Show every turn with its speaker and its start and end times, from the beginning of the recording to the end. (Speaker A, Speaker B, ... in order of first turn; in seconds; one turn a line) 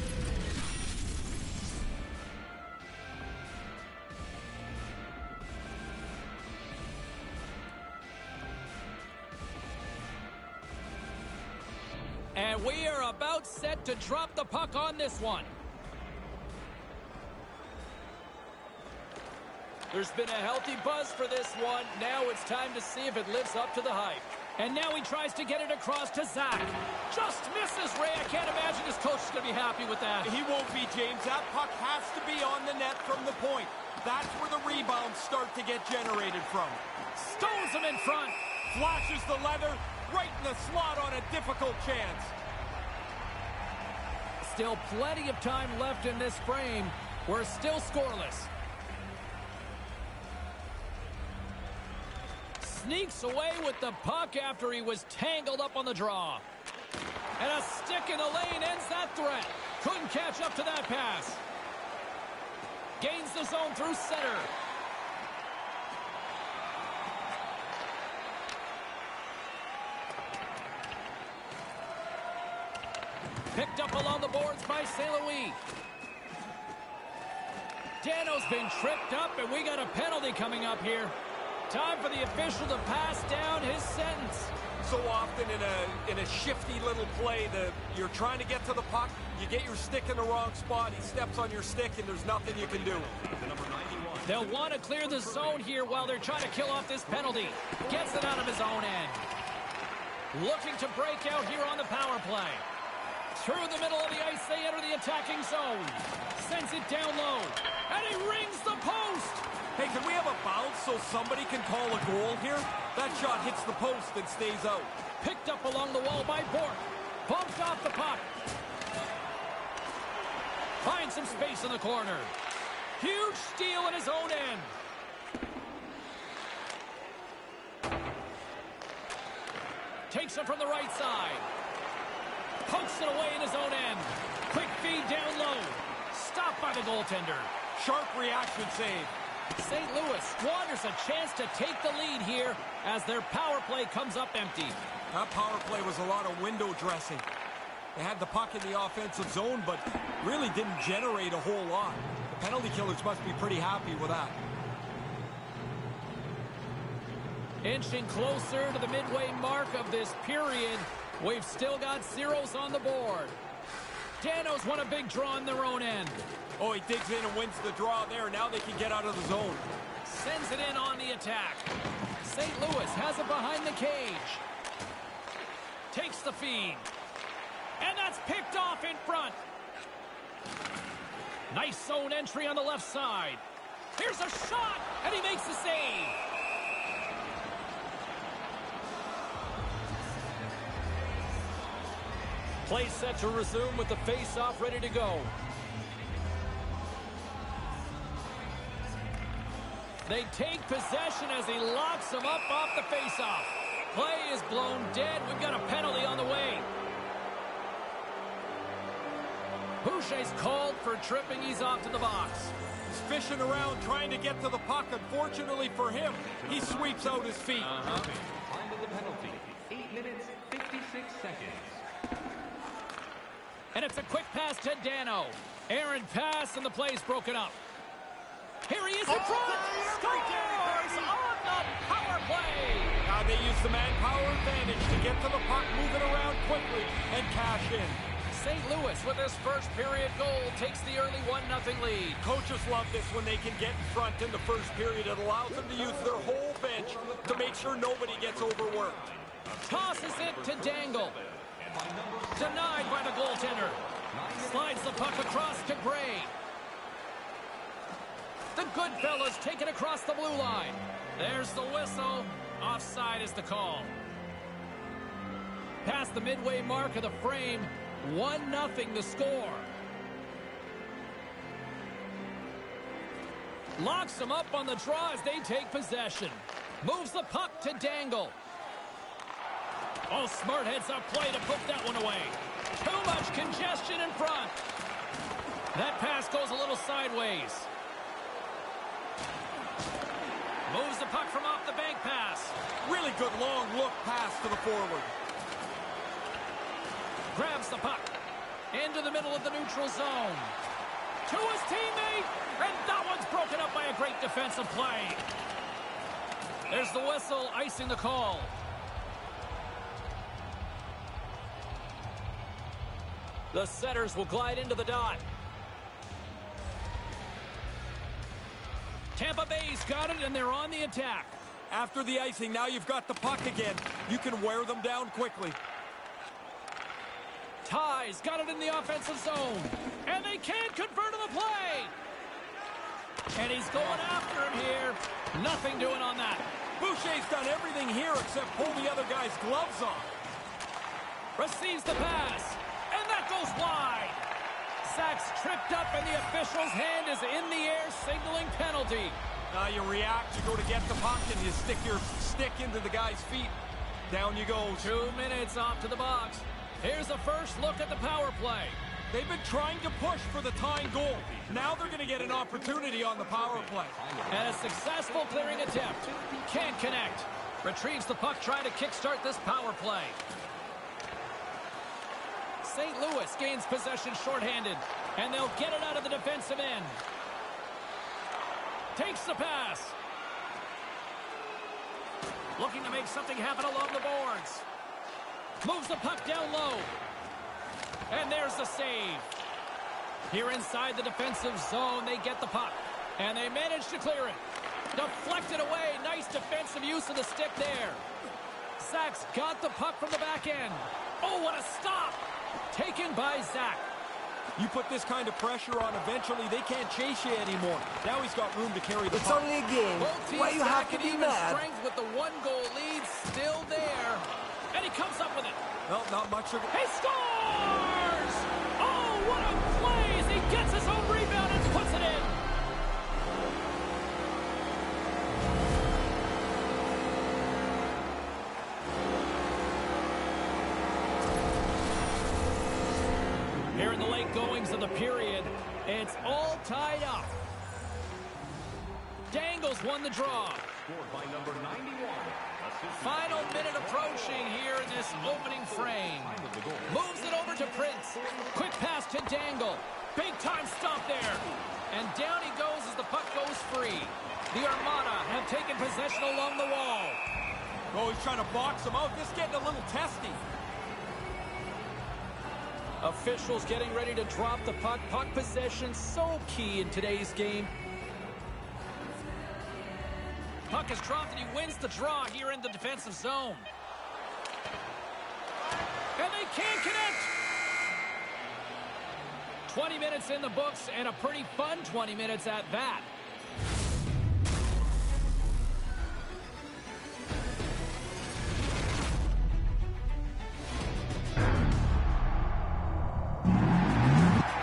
Speaker A: 12.3-15.5
Speaker A: 19.9-30.3
Speaker B: 30.2-36.8
Speaker A: 37.1-38.4
Speaker B: 38.7-42.3
Speaker A: 44.4-48.5
Speaker A: 52.6-56.4
Speaker A: 57.4-61.4
Speaker A: 63.0-64.5
Speaker A: 73.5-75.6
Speaker A: 78.0-81.1
Speaker A: 81.7-84.5
Speaker B: 84.8-93.1
Speaker C: 92.7-97.1
Speaker A: 94.2-99.2
Speaker A: 100.3-102.6
Speaker A: 103.3-109.4
Speaker B: 109.7-114.9
Speaker A: 115.2-118.3
Speaker A: 120.8-122.3
Speaker A: 123.0-124.7
Speaker A: 130.1-131.4
Speaker A: 132.6-137.5
Speaker B: 137.7-139.1
Speaker A: 139.6-144.8
Speaker B: 145.1-147.2
Speaker B: 147.9-154.4
Speaker A: 157.6-163.4
Speaker A: 164.2-166.2
Speaker B: 166.6-169.7
Speaker A: 170.0-171.7
Speaker A: 172.2-174.4
Speaker A: 175.9-176.9
Speaker A: 177.8-179.4
Speaker A: 181.5-183.4
Speaker A: 183.9-186.2
Speaker A: 192.6-195.3
Speaker A: 200.1-206.7
Speaker A: 209.8-212.5
Speaker B: 212.9-217.8
Speaker C: 216.4-221.8
Speaker A: 217.6-218.1
Speaker A: 223.7-227.6
Speaker A: 228.7-232.9
Speaker B: 233.0-238.0
Speaker A: 238.3-242.2
Speaker B: 242.2-249.0
Speaker C: 245.6-255.6
Speaker A: 249.6-251.2
Speaker A: 252.4-253.8
Speaker A: 254.3-256.3
Speaker A: 258.5-263.9
Speaker A: 265.8-269.7
Speaker A: 273.8-278.3
Speaker A: 280.1-284.6
Speaker A: 285.7-287.7
Speaker A: 290.7-292.6
Speaker B: 292.8-295.1
Speaker A: 297.3-298.1
Speaker A: 298.7-300.5
Speaker A: 301.2-305.2
Speaker A: 306.7-308.5
Speaker A: 313.5-315.2
Speaker A: 319.1-321.3
Speaker B: 321.7-325.6
Speaker A: 327.6-331.9
Speaker A: 333.3-336.4
Speaker B: 336.8-340.1
Speaker A: 341.4-344.2
Speaker A: 344.8-349.2
Speaker B: 349.5-353.5
Speaker B: 354.1-354.9
Speaker A: 354.8-358.8
Speaker B: 359.1-364.0
Speaker C: 361.3-366.8
Speaker A: 364.3-370.2
Speaker A: 372.6-377.0
Speaker A: 378.9-379.9
Speaker A: 382.6-384.6
Speaker A: 385.6-386.9
Speaker A: 388.1-389.3
Speaker A: 390.3-394.4
Speaker A: 394.9-398.0
Speaker A: 398.8-403.8
Speaker B: 404.6-409.5
Speaker D: 409.1-411.6
Speaker A: 410.0-415.6
Speaker B: 415.9-416.7
Speaker A: 416.7-422.4
Speaker A: 433.7-437.3
Speaker A: 439.3-440.7
Speaker C: 440.8-448.8
Speaker A: 443.0-457.2
Speaker B: 457.9-460.4
Speaker A: 463.0-467.7
Speaker A: 470.7-473.7
Speaker A: 476.2-477.3
Speaker A: 479.6-483.1